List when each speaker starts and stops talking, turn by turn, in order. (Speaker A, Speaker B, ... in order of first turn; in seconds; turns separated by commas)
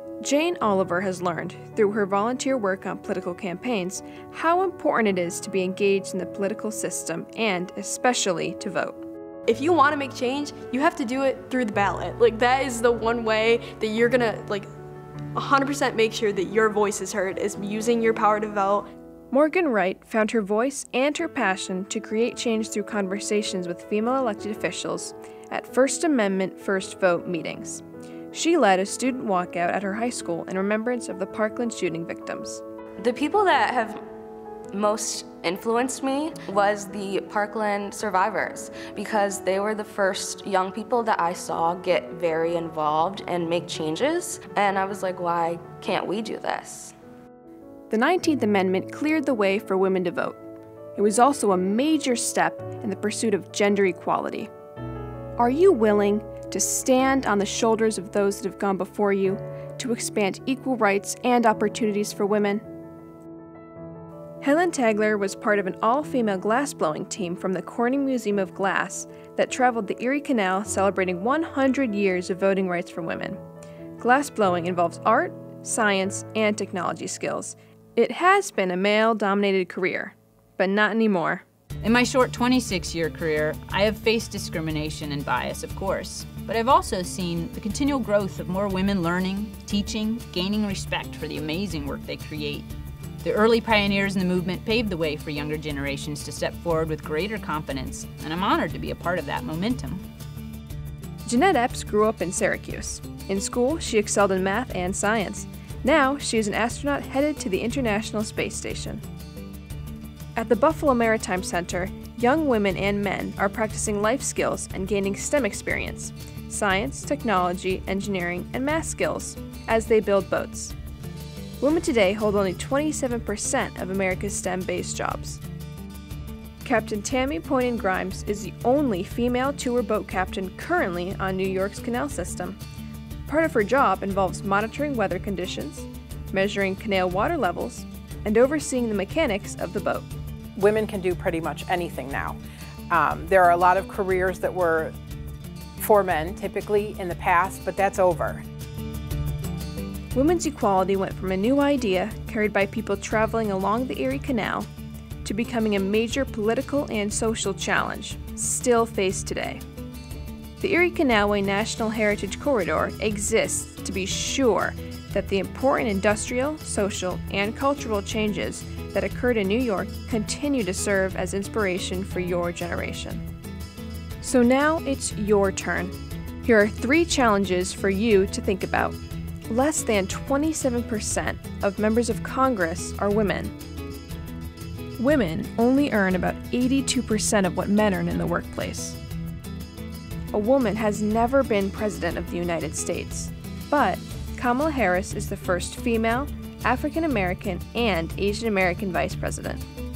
Speaker A: 0.2-9.0, Speaker B: 9.5-14.7, Speaker B: 15.3-18.9, Speaker A: 19.3-32.6, Speaker C: 33.0-34.0, Speaker C: 34.7-46.9, Speaker A: 47.9-50.4, Speaker A: 51.0-54.5, Speaker A: 55.4-62.6, Speaker A: 64.4-73.4, Speaker A: 74.0-81.4, Speaker D: 81.8-92.7, Speaker D: 93.2-100.0, Speaker A: 101.2-109.0, Speaker A: 110.3-120.7, Speaker A: 121.6-125.4, Speaker A: 126.6-132.6, Speaker A: 133.3-140.1, Speaker E: 140.6-142.4, Speaker E: 142.9-144.9, Speaker E: 145.8-148.4, Speaker A: 150.1-154.7, Speaker A: 155.2-159.6, Speaker A: 160.6-173.2, Speaker A: 174.2-179.0, Speaker A: 179.5-183.5, Speaker A: 185.0-189.0, Speaker A: 190.3-199.6